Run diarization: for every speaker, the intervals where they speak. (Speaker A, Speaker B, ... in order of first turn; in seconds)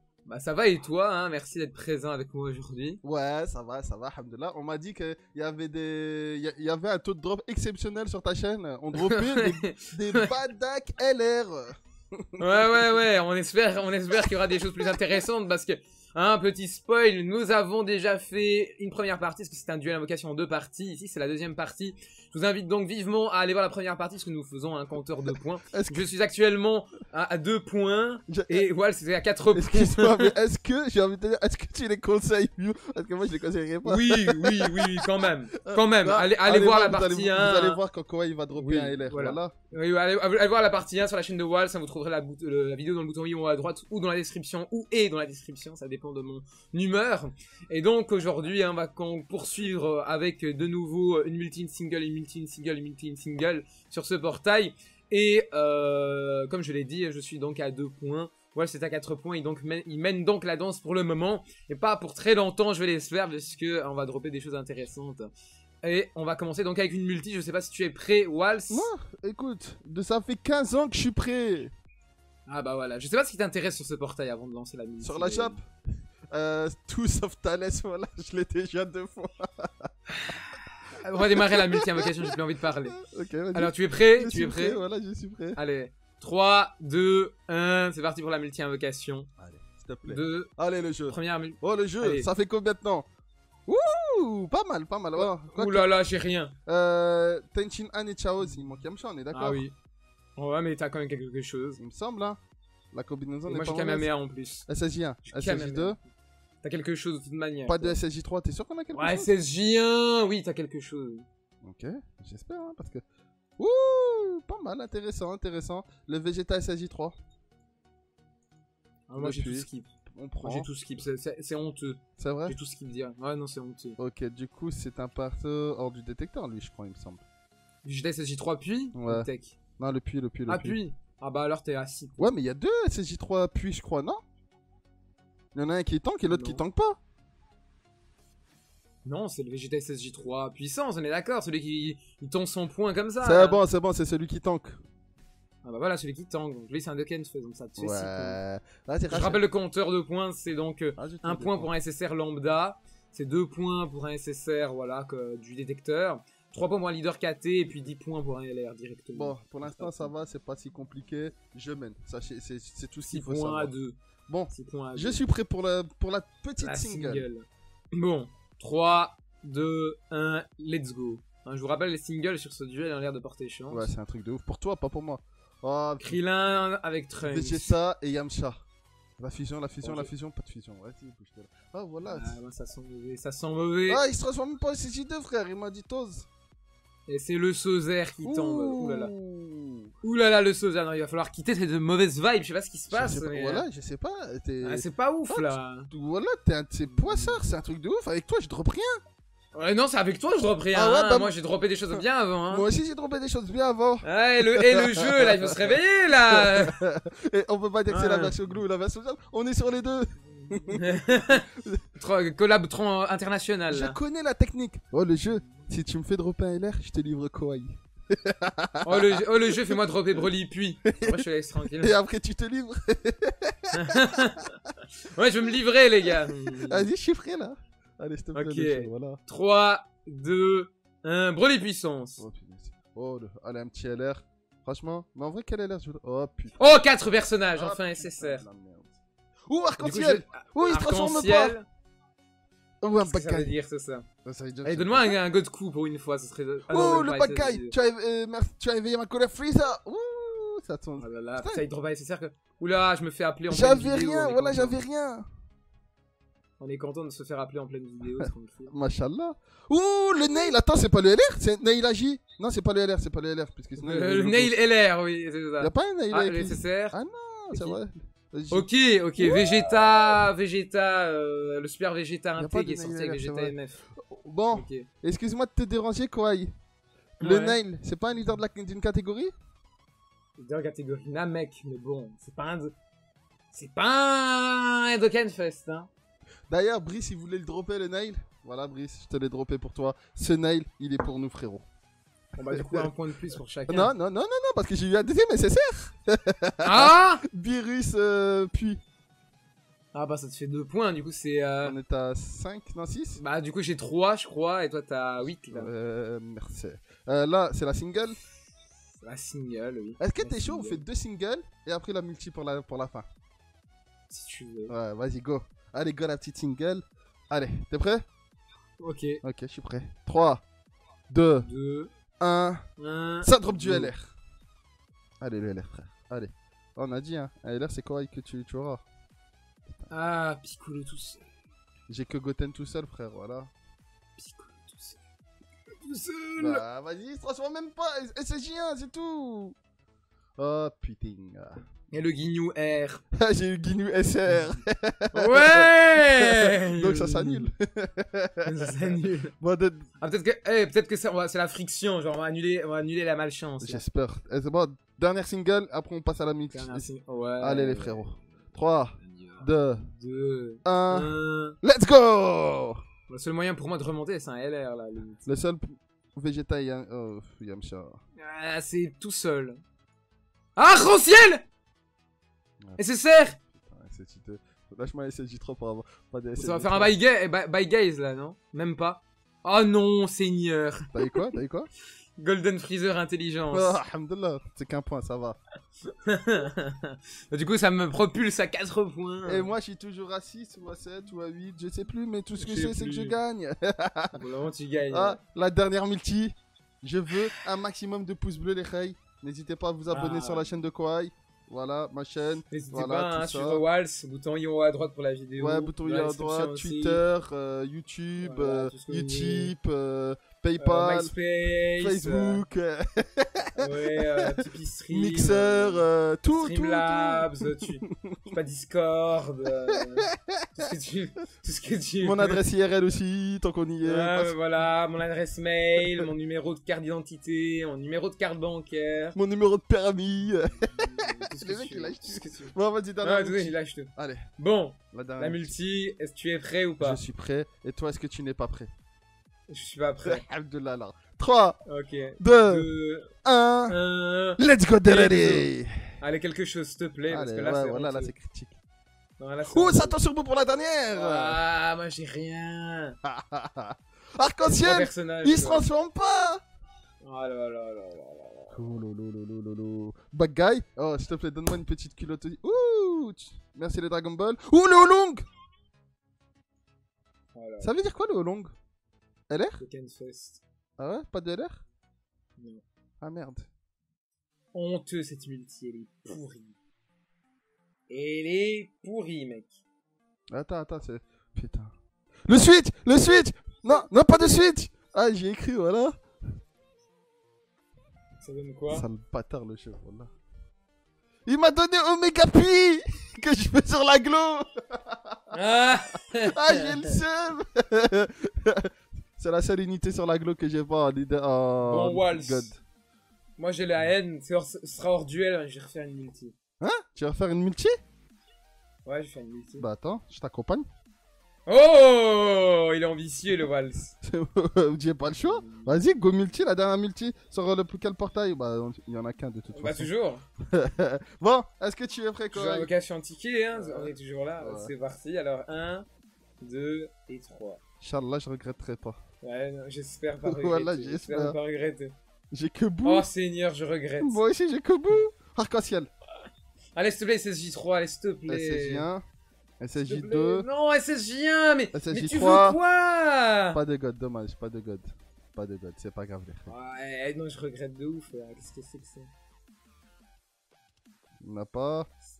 Speaker A: 0.2-3.0, 8.9-10.3, 12.4-30.3, 33.8-37.8, 38.5-65.3, 65.8-68.9, 72.5-75.6, 80.2-83.0, 83.5-84.8, 85.5-89.3, 90.0-90.5, 91.1-92.3, 95.2-96.5, 99.3-99.7, 100.4-101.8, 103.5-104.7, 105.2-106.0, 106.6-108.0, 108.9-111.2, 119.1-119.9, 120.4-124.0, 127.8-129.5, 130.5-132.3, 136.3-136.6, 139.0-143.6, 145.6-148.4, 149.1-160.1, 163.1-164.0, 164.5-165.2, 166.6-173.9, 176.0-177.8, 179.8-180.1, 182.1-184.0, 187.1-189.1, 190.0-193.6, 194.6-195.9, 196.9-197.4, 199.5-202.7, 204.0-206.8, 207.9-208.4, 210.7-214.0, 218.8-222.0, 223.7-226.9, 228.3-232.2, 236.6-238.4, 239.8-241.6, 243.0-244.0, 244.6-247.7, 251.0-254.8, 256.6-258.7, 263.8-267.0, 267.5-267.8, 268.5-273.8, 274.5-274.9, 277.2-277.6, 280.4-282.7, 283.5-285.9, 292.4-293.9, 296.6-297.2, 299.9-301.7, 303.2-305.7, 309.0-310.8, 314.1-314.7, 318.8-319.2, 321.4-321.9, 322.8-323.9, 329.9-331.2, 334.2-335.0, 335.7-336.6, 341.9-343.0, 344.3-344.5, 345.1-347.5, 348.4-349.3, 350.0-353.8, 356.5-358.2, 359.0-361.6, 363.1-365.2, 368.2-369.6, 370.6-371.4, 372.8-373.4, 376.4-381.1, 382.2-383.8, 386.0-389.5, 392.4-393.2, 394.1-395.2, 399.9-400.5, 402.5-407.0, 408.2-409.5, 410.6-412.4, 413.6-422.4, 423.8-429.2, 430.7-437.0, 439.5-440.2, 441.7-443.1, 443.7-448.1, 449.2-449.9, 450.9-452.9, 454.4-455.6, 457.0-458.7, 467.3-467.7, 469.6-470.4, 472.4-472.6, 474.5-476.6, 477.9-479.6, 483.7-484.5, 488.2-488.9, 495.3-497.0, 501.6-502.5, 503.4-506.3, 508.9-509.6, 511.5-513.9, 515.1-515.7, 519.5-520.2, 522.3-525.9, 526.4-527.6, 529.2-531.9, 532.8-534.2, 536.8-538.9, 539.7-543.6, 546.5-549.1
Speaker B: 3.0-12.7, 25.7-26.1, 28.3-28.7, 29.5-39.5, 68.7-71.7, 75.0-75.7, 76.3-79.9, 81.2-82.1, 82.9-85.6, 89.4-93.0, 93.7-95.9, 96.7-99.6, 101.8-102.4, 102.9-104.1, 104.7-106.0, 107.7-109.3, 111.6-113.0, 113.6-117.2, 119.2-120.7, 122.2-122.5, 124.0-127.2, 128.9-130.8, 132.2-134.2, 135.5-137.0, 143.2-144.8, 147.8-149.4, 151.0-151.7, 159.1-163.7, 164.3-167.2, 173.7-176.2, 177.2-178.6, 179.2-182.4, 183.9-186.3, 188.2-189.9, 192.9-199.0, 200.3-201.3, 201.9-205.8, 206.3-211.8, 213.7-219.8, 220.9-221.2, 221.8-224.3, 226.6-229.2, 232.2-236.8, 237.5-241.6, 242.8-243.5, 244.2-245.2, 246.7-251.6, 253.5-255.2, 258.2-264.6, 265.6-268.7, 269.2-270.2, 272.4-276.5, 277.2-279.3, 286.5-291.6, 292.4-292.9, 293.7-298.8, 301.6-303.2, 305.5-308.2, 310.0-313.1, 314.7-318.0, 319.2-320.4, 321.1-321.5, 322.2-322.6, 323.2-324.1, 325.2-328.8, 331.9-333.5, 336.4-339.6, 340.4-341.6, 343.1-348.7, 349.4-349.9, 353.6-356.9, 357.4-359.9, 360.6-362.8, 365.2-368.0, 373.5-376.9, 380.9-381.7, 383.5-385.4, 389.2-394.2, 394.9-403.6, 405.4-411.1, 411.8-414.3, 414.9-417.3, 417.8-418.3, 420.1-420.4, 422.0-424.4, 429.1-434.3, 434.9-435.5, 436.8-438.7, 440.1-441.6, 442.2-442.7, 443.2-443.8, 444.4-445.9, 447.1-448.6, 449.5-451.4, 453.0-456.4, 458.5-465.2, 467.6-468.5, 469.3-469.6, 470.8-471.6, 473.0-473.5, 480.3-481.7, 482.2-486.0, 488.7-490.1, 491.2-495.4, 496.2-502.6, 506.6-507.7, 509.6-510.6, 514.0-519.9, 520.5-522.7, 523.5-524.7, 527.8-529.0, 530.2-531.4, 532.3-533.1, 534.0-535.9, 538.3-539.0, 539.6-540.5, 541.7-542.6, 543.5-546.5, 551.2-551.9